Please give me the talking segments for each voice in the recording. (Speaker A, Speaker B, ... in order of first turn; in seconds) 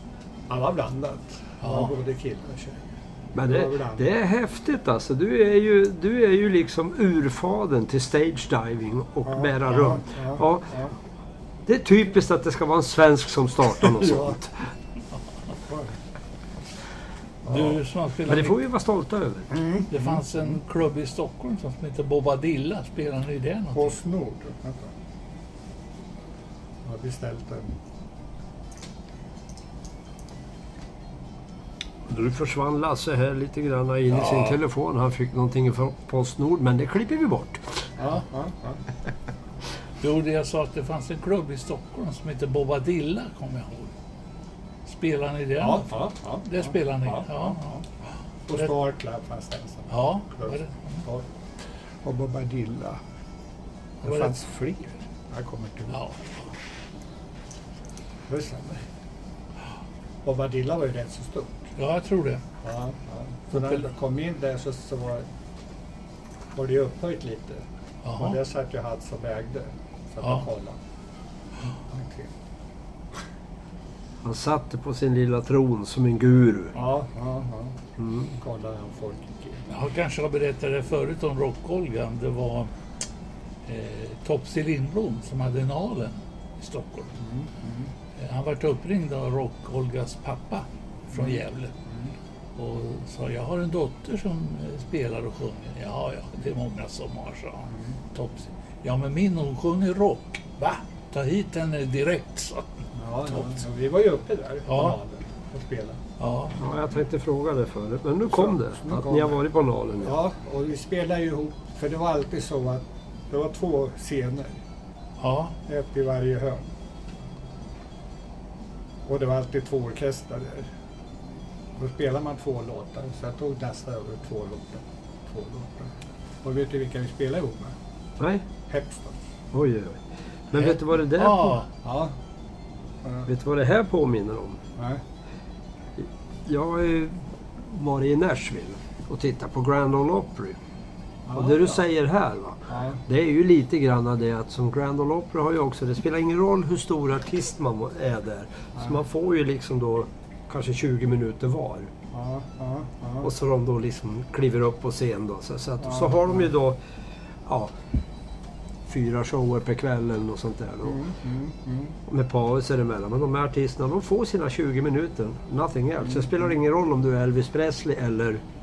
Speaker A: 0.5-2.8, 3.4-4.1, 9.2-10.9, 14.1-14.3, 15.7-15.9, 17.4-17.8, 19.5-20.5, 23.7-24.9, 26.8-27.7, 38.0-38.8, 45.6-47.8, 48.5-51.2, 52.0-53.0, 54.0-56.0, 58.3-58.8, 60.2-61.6, 62.6-65.2, 66.5-70.8, 71.8-72.3, 76.7-79.7, 87.2-87.9, 91.1-92.1, 97.7-97.9, 102.9-106.0, 108.3-109.4, 110.0-114.6, 115.7-116.7, 119.1-120.7, 121.8-127.8, 128.7-129.2, 131.8-132.1, 134.8-135.0, 141.2-141.8, 142.7-143.0, 152.1-153.3, 155.8-156.4, 160.8-161.9
Speaker B: 1.6-1.9, 17.5-18.5, 19.9-23.9, 40.0-43.9, 44.9-45.9, 46.4-47.7, 49.9-51.0, 54.0-54.5, 55.9-56.5, 61.8-62.4, 68.0-68.3, 79.7-82.7, 83.7-87.1, 88.2-91.7, 92.6-102.7, 104.7-105.0, 106.2-106.6, 115.2-115.5, 131.1-131.7
Speaker C: 3.4-10.7, 11.7-14.7, 18.2-19.5, 32.1-37.8, 74.2-76.7, 78.0-78.2, 106.6-110.2, 128.2-128.4, 129.5-131.6, 133.3-134.6, 136.0-140.6, 141.3-151.9, 153.2-156.8, 157.4-157.7, 158.8-161.0, 162.1-168.4